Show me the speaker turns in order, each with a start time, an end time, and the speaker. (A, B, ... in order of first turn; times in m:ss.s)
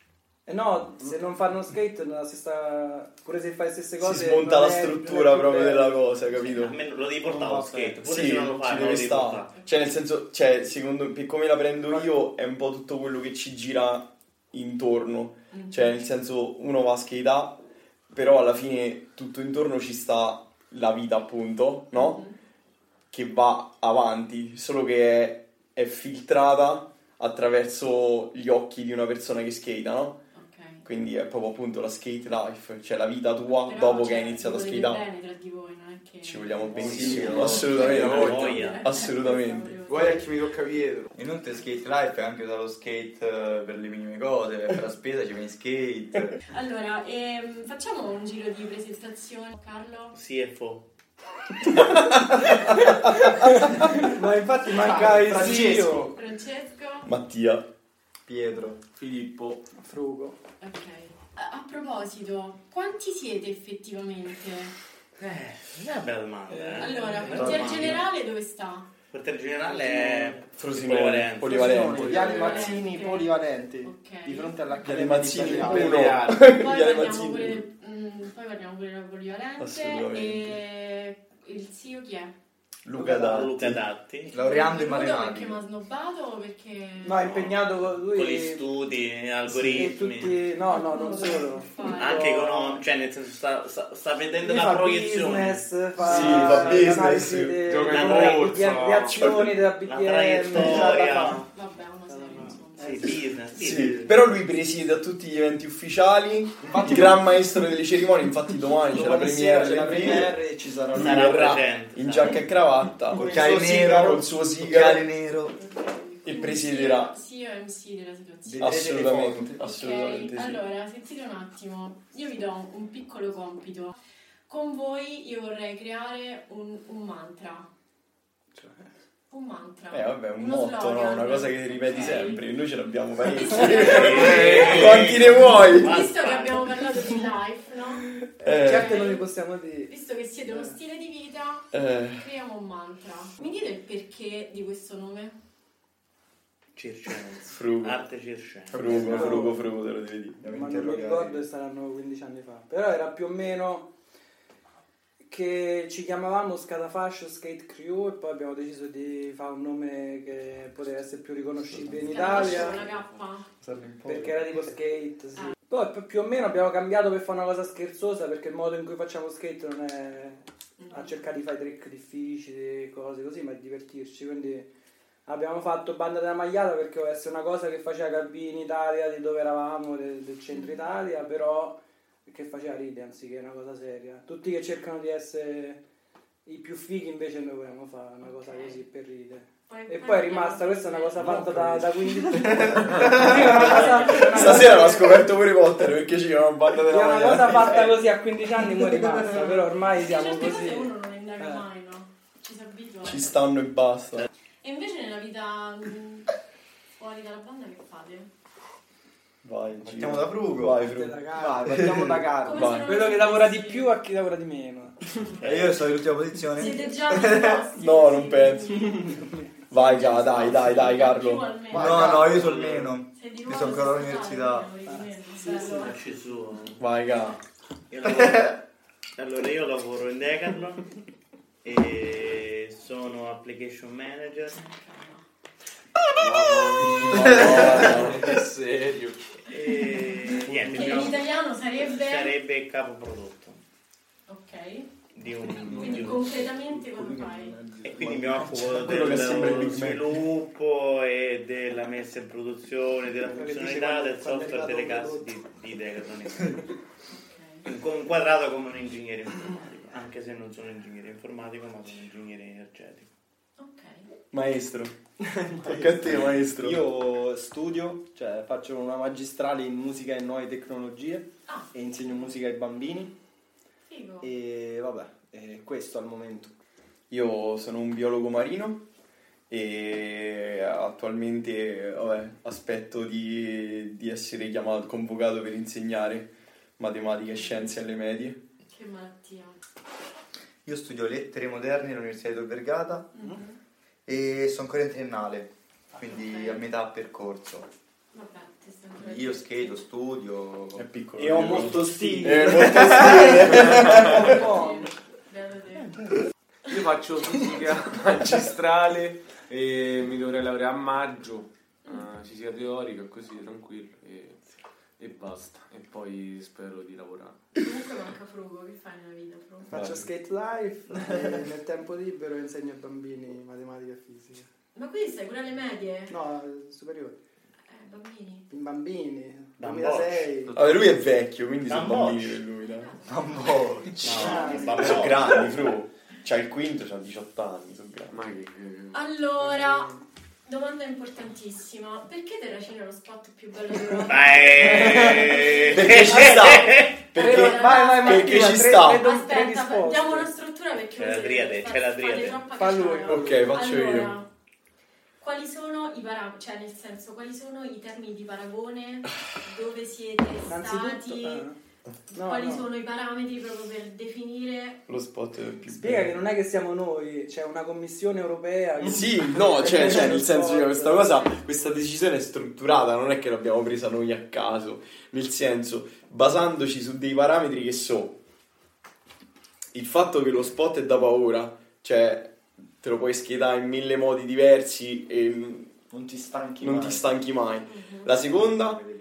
0:00.4-0:06.0 A
0:04.0-0:06.8 B
0:06.4-0:09.5 C
0:07.2-0:08.0 D
0:08.0-0:17.6 B
0:15.5-0:15.9 E
0:18.1-0:22.2 B
0:21.9-0:22.4 E
0:23.1-0:30.2 B
0:30.3-0:30.8 E
0:30.8-0:35.0 B
0:33.6-0:40.3 E
0:36.2-0:39.7 B
0:36.7-0:38.6 F
0:36.8-0:37.7 D
0:37.1-0:38.8 C
0:39.9-0:41.1 D
0:41.1-0:46.4 F
0:46.5-0:50.2 E
0:50.1-0:50.8 C
0:53.2-0:56.1 A
0:54.7-0:56.1 D
0:55.3-0:57.1 E
0:57.0-0:57.6 B
0:58.3-0:58.8 F
0:58.9-0:59.6 G
0:59.7-1:00.4 A
1:00.6-1:04.8 E
1:05.2-1:08.0 C
1:06.5-1:07.7 A
1:06.8-1:08.9 E
1:07.3-1:08.0 B
1:09.1-1:12.2 C
1:09.8-1:10.3 A
1:10.6-1:12.8 B
1:11.4-1:16.2 D
1:12.1-1:15.2 E
1:14.8-1:17.6 B
1:15.6-1:16.3 G
1:16.3-1:22.3 E
1:19.6-1:20.6 B
1:22.8-1:23.8 B
1:23.1-1:24.5 C
1:24.3-1:25.6 F
1:24.3-1:27.2 E
1:27.0-1:28.6 A
1:27.2-1:30.4 C
1:29.5-1:32.8 A
1:30.7-1:32.3 E
1:32.0-1:35.6 C
1:34.4-1:41.1 A
1:36.0-1:37.8 B
1:36.0-1:36.9 G
1:36.3-1:36.6 C
1:37.6-1:39.2 G
1:37.9-1:39.2 C
1:39.2-1:39.6 B
1:39.8-1:41.5 C
1:40.6-1:41.5 D
1:41.4-1:43.1 E
1:42.1-1:43.1 A
1:42.8-1:44.2 C
1:43.5-1:50.4 B
1:46.6-1:47.3 D
1:48.7-1:52.4 D
1:50.9-1:55.1 B
1:50.9-1:52.4 C
1:53.2-1:54.3 D
1:53.2-1:55.6 F
1:55.6-1:58.8 E
1:56.2-1:57.2 B
1:58.4-2:00.3 D
1:58.6-2:00.6 B
1:59.6-2:03.9 E
2:04.5-2:07.7 E
2:08.5-2:08.8 A
2:09.3-2:12.5 E
2:09.9-2:16.0 B
2:13.3-2:18.0 E
2:13.8-2:16.9 C
2:18.4-2:19.1 B
2:18.4-2:19.9 A
2:18.6-2:19.2 E
2:19.9-2:25.3 E
2:21.7-2:22.2 B
2:26.8-2:29.1 C
2:27.5-2:28.0 B
2:28.7-2:30.4 B
2:28.8-2:29.4 D
2:28.8-2:29.6 A
2:30.4-2:33.9 A
2:30.5-2:31.3 D
2:30.7-2:31.3 F
2:35.2-2:42.8 A
2:42.0-2:43.5 E
2:42.4-2:43.1 G
2:43.6-2:44.3 B
2:44.0-2:54.7 A
2:50.8-2:51.1 E
2:55.3-3:05.8 A
3:00.5-3:00.8 E
3:06.4-3:15.2 A
3:08.2-3:08.8 E
3:09.7-3:11.5 E
3:12.5-3:18.0 B
3:12.8-3:13.2 D
3:13.2-3:14.9 E
3:16.8-3:21.6 A
3:19.9-3:23.4 E
3:23.0-3:24.3 B
3:24.6-3:26.3 E
3:27.0-3:28.3 E
3:29.4-3:32.9 B
3:29.8-3:30.9 F
3:30.8-3:31.7 A
3:31.3-3:32.8 D
3:32.4-3:33.9 E
3:32.8-3:35.1 A
3:35.4-3:37.7 F
3:35.4-3:35.8 C
3:36.5-3:39.2 E
3:37.7-3:39.1 B
3:39.1-3:39.3 A
3:39.7-3:41.5 B
3:39.8-3:42.2 E
3:41.7-3:44.7 F
3:41.7-3:42.7 D
3:42.2-3:42.9 C
3:43.1-3:46.0 E
3:44.9-3:45.9 A
3:45.7-3:46.8 C
3:46.8-3:47.4 B
3:47.9-3:48.6 C
3:49.2-3:50.9 C
3:51.6-3:54.6 C
3:54.5-3:55.2 E
3:56.2-3:59.2 G
3:57.0-3:58.2 B
3:57.1-3:57.8 D
3:59.5-4:01.2 C
4:00.5-4:01.1 D
4:00.7-4:02.3 E
4:01.8-4:03.6 C
4:04.3-4:04.9 E
4:05.1-4:06.4 C
4:05.6-4:08.5 D
4:05.7-4:07.6 E
4:07.8-4:16.6 C
4:08.6-4:10.1 B
4:13.3-4:15.3 A
4:17.1-4:17.6 E
4:17.6-4:23.1 C
4:23.6-4:24.1 E
4:24.3-4:25.0 B
4:25.2-4:33.1 D
4:25.6-4:26.8 B
4:33.8-4:34.3 E
4:34.2-4:36.6 D
4:37.1-4:38.8 B
4:39.5-4:48.4 B
4:47.3-4:47.7 E
4:48.7-4:49.6 E
4:50.6-4:53.1 F
4:53.2-4:53.6 E
4:54.0-4:57.7 F
4:56.1-4:56.6 E
4:58.1-4:59.8 E
4:59.0-5:01.9 F
5:00.7-5:04.4 B
5:01.2-5:03.3 D
5:01.6-5:04.9 A
5:03.6-5:04.1 G
5:04.2-5:06.0 E
5:06.7-5:14.4 G
5:15.0-5:17.4 G
5:17.6-5:19.7 E
5:19.7-5:24.5 A
5:24.7-5:26.2 E
5:26.1-5:27.2 A
5:27.6-5:28.5 E
5:28.5-5:30.6 A
5:29.6-5:30.3 C
5:30.5-5:32.9 B
5:31.6-5:32.4 C
5:32.6-5:33.8 E
5:33.0-5:34.4 F
5:34.0-5:35.5 C
5:34.0-5:38.2 B
5:34.1-5:34.8 A
5:38.1-5:39.0 G
5:38.9-5:39.9 E
5:39.6-5:39.9 A
5:40.4-5:45.1 E
5:44.1-5:47.0 C
5:45.5-5:49.0 B
5:47.1-5:50.3 A
5:47.2-5:54.3 E
5:50.9-5:52.5 C
5:52.6-5:53.5 A
5:53.0-5:54.2 B
5:55.2-6:01.5 E
6:00.4-6:01.6 A
6:02.1-6:04.8 E
6:02.1-6:02.7 A
6:04.9-6:06.2 B
6:05.7-6:11.3 A
6:08.8-6:18.2 B
6:19.7-6:25.7 B
6:25.9-6:27.1 D
6:26.6-6:28.8 B
6:27.6-6:28.1 E